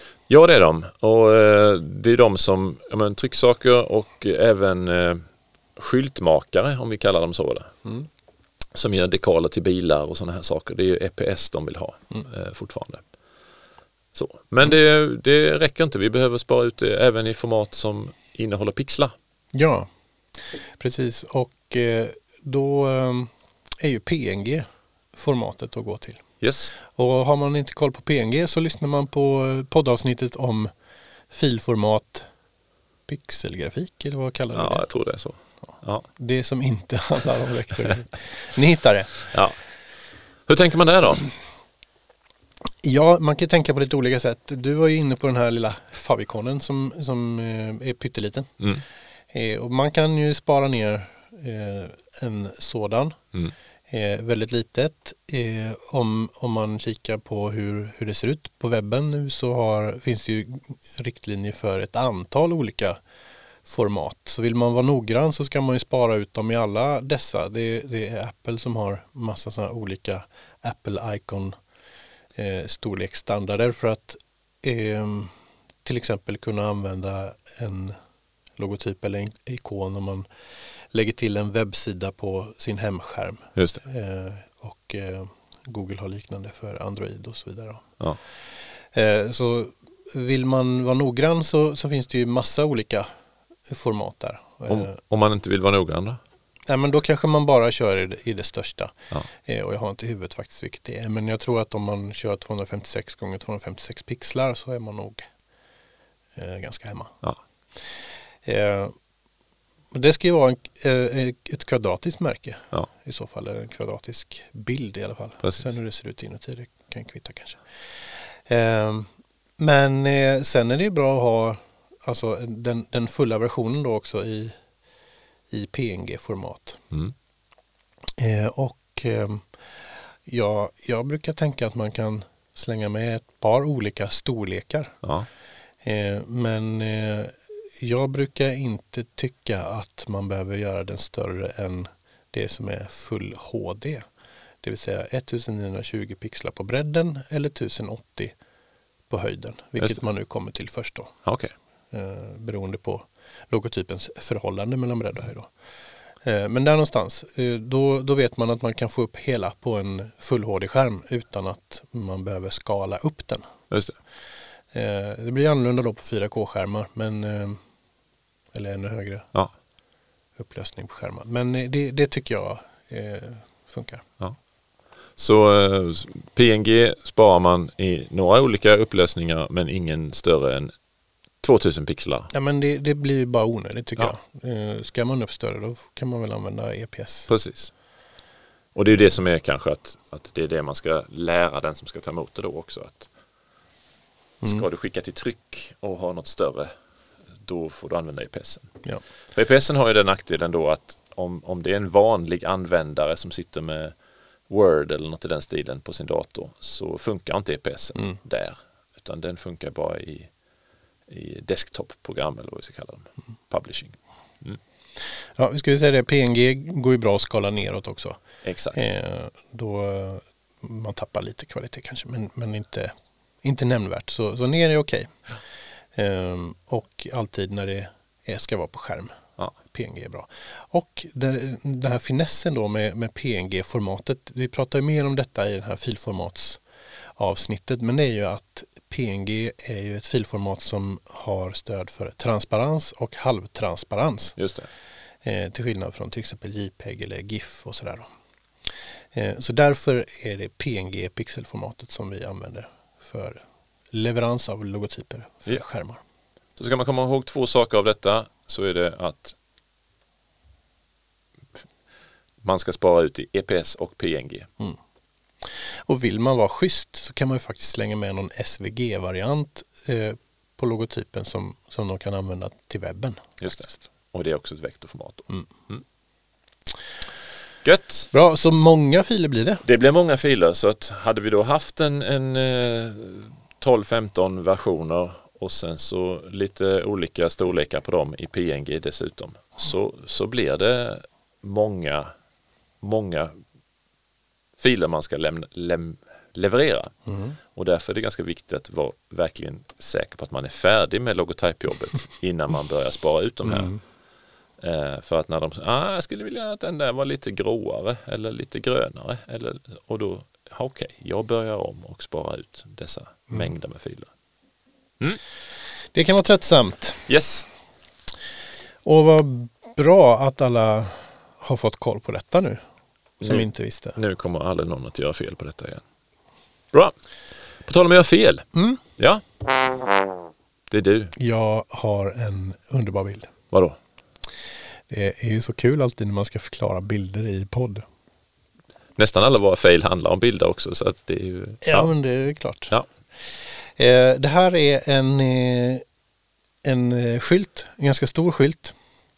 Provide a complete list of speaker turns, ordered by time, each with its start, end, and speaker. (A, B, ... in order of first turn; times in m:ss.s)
0:00.3-0:05.2 A
0:05.8-0:07.7 A
0:08.7-0:13.0 A
0:14.1-0:19.1 A
0:19.5-0:19.9 B
0:20.8-0:26.2 B
0:26.4-0:26.7 A
0:26.8-0:30.7 B
0:31.3-0:32.3 B
0:33.1-0:34.8 B
0:34.5-0:36.1 A
0:36.2-0:39.2 B
0:39.3-0:39.6 A
0:40.5-0:41.3 A
0:42.8-0:48.5 B
0:49.3-0:53.2 B
0:53.9-1:03.0 B
1:03.6-1:11.5 B
1:12.3-1:15.3 B
1:15.8-1:18.0 B
1:18.6-1:20.2 B
1:20.9-1:27.9 B
1:23.6-1:23.8 A
1:28.9-1:33.1 B
1:33.7-1:35.0 B
1:34.7-1:36.2 A
1:36.7-1:45.3 B
1:46.4-1:47.2 B
1:48.4-1:48.9 B
1:49.9-1:57.6 B
1:58.5-2:04.5 B
2:05.5-2:06.8 B
2:08.2-2:09.5 B
2:10.2-2:14.9 B
2:15.0-2:15.3 A
2:15.8-2:24.0 B
2:24.6-2:28.3 B
2:29.1-2:31.1 B
2:31.2-2:31.5 A
2:31.9-2:35.5 B
2:36.2-2:43.4 B
2:43.7-2:44.0 A
2:44.7-2:47.6 B
2:48.5-2:49.3 B
2:50.4-2:54.0 B
2:55.2-3:00.7 A
3:01.4-3:02.3 A
3:02.3-3:07.3 B
3:07.3-3:07.7 A
3:08.7-3:13.1 A
3:14.4-3:16.7 A
3:17.4-3:18.7 A
3:19.3-3:23.9 A
3:24.5-3:30.3 A
3:31.1-3:34.6 A
3:35.4-3:38.2 B
3:38.4-3:38.8 A
3:38.7-3:45.2 B
3:45.9-3:56.6 B
3:57.2-4:04.4 B
4:04.4-4:04.7 A
4:05.2-4:08.1 B
4:09.1-4:16.0 B
4:16.6-4:19.4 A
4:22.4-4:24.5 A
4:25.9-4:33.8 B
4:33.4-4:35.8 A
4:37.6-4:38.1 A
4:38.1-4:39.6 B
4:39.6-4:52.1 A
4:52.8-4:53.3 A
4:54.6-4:56.9 A
4:57.1-4:57.4 B
4:57.5-5:03.8 A
5:03.5-5:03.8 B
5:04.6-5:14.1 A
5:15.9-5:17.1 B
5:17.1-5:17.5 A
5:18.8-5:22.6 B
5:23.2-5:24.0 B
5:23.2-5:25.8 A
5:27.6-5:29.2 A
5:28.5-5:28.8 B
5:30.7-5:31.1 A
5:31.2-5:33.3 B
5:33.5-5:33.8 A
5:34.9-5:37.8 B
5:39.0-5:41.9 A
5:41.6-5:42.7 B
5:43.8-5:45.8 B
5:46.6-5:48.8 B